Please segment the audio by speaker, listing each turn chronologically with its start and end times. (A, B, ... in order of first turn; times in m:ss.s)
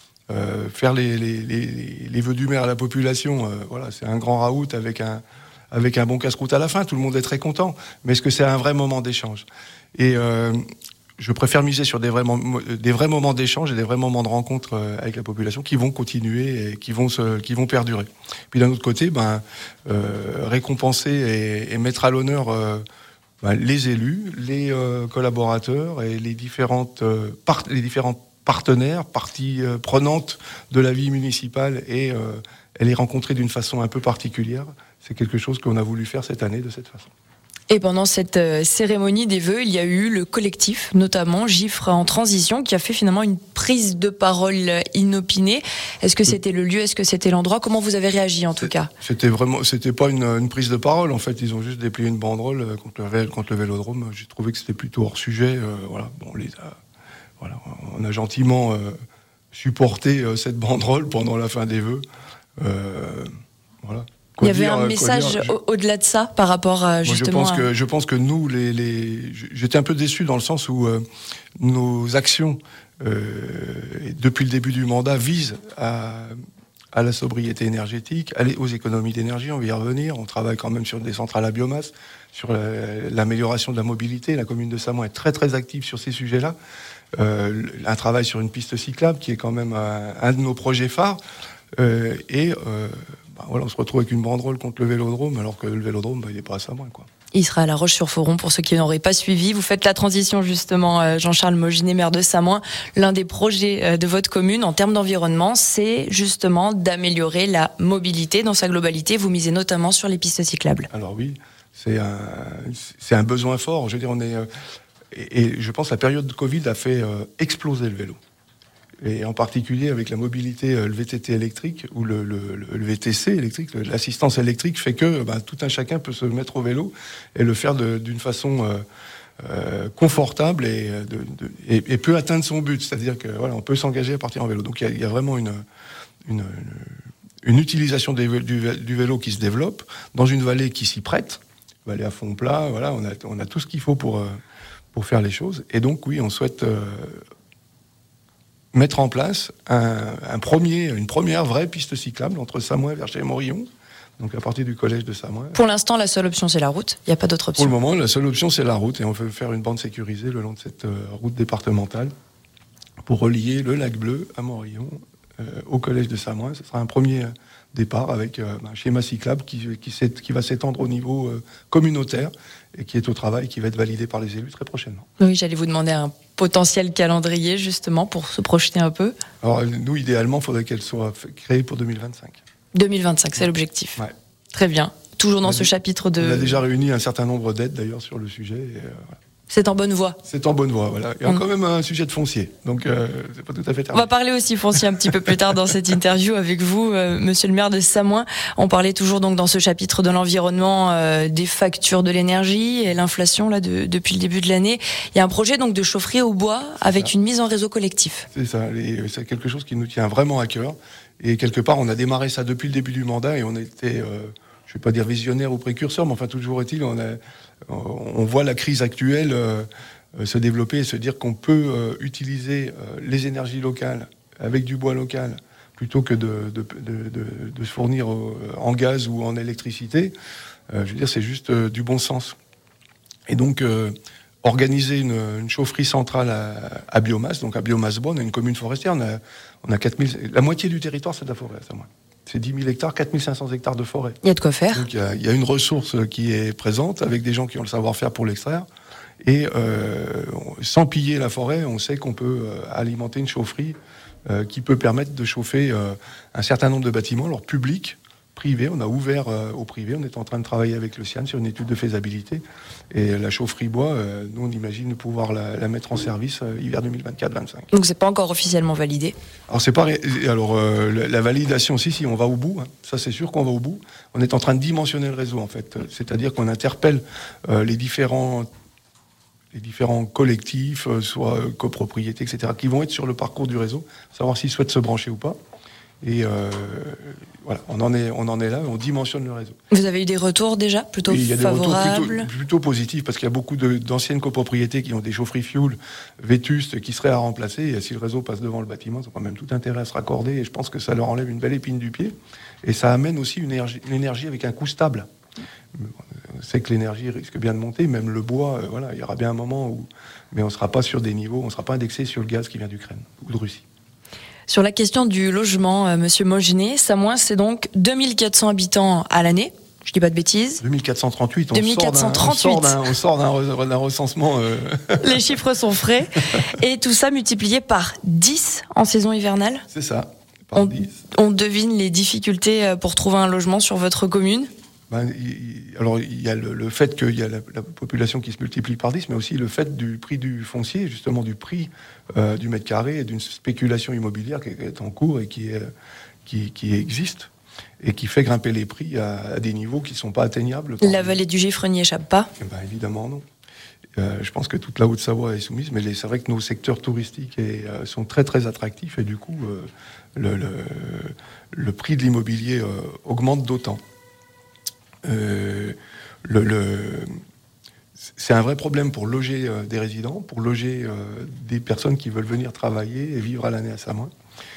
0:00.3-0:10.6 A
0:11.2-0:22.8 A
0:23.4-0:37.1 A
0:37.7-0:48.9 B
0:48.6-0:56.8 A
0:57.4-0:59.0 A
0:59.5-1:02.0 A
1:02.6-1:03.3 A
1:03.8-1:05.6 A
1:04.4-1:07.7 B
1:07.0-1:11.0 A
1:11.6-1:16.4 A
1:16.9-1:26.6 A
1:27.2-1:31.2 A
1:31.8-1:37.1 A
1:37.3-1:50.9 B
1:50.9-1:54.5 A
1:55.1-1:58.2 A
1:59.0-2:08.8 A
2:09.4-2:15.6 A
2:16.3-2:24.4 A
2:24.9-2:27.2 A
2:28.7-2:33.7 A
2:34.2-2:35.6 A
2:35.5-2:37.8 B
2:37.6-2:42.1 A
2:43.1-2:55.1 A
2:55.2-2:59.1 B
2:59.4-3:02.4 A
3:02.7-3:04.0 B
3:04.5-3:06.6 B
3:05.4-3:09.2 A
3:09.5-3:10.2 B
3:10.2-3:14.1 A
3:13.9-3:28.3 B
3:14.8-3:15.4 A
3:28.3-3:50.1 A
3:50.7-3:52.4 A
3:53.3-4:04.2 A
4:04.2-4:04.9 B
4:04.7-4:08.7 A
4:09.2-4:27.7 A
4:27.7-4:29.2 B
4:29.5-4:38.5 A
4:39.5-4:45.4 A
4:46.0-4:49.6 A
4:49.7-4:52.3 B
4:51.1-5:05.1 A
5:05.8-5:13.6 A
5:14.5-5:20.6 B
5:20.6-5:25.3 A
5:21.5-5:22.8 B
5:25.0-5:29.6 B
5:29.7-5:30.9 A
5:30.6-5:34.5 B
5:34.9-5:45.7 A
5:46.3-5:51.2 A
5:50.8-5:52.3 B
5:52.4-5:53.2 A
5:54.0-6:03.8 A
6:05.0-6:07.1 A
6:08.2-6:14.1 A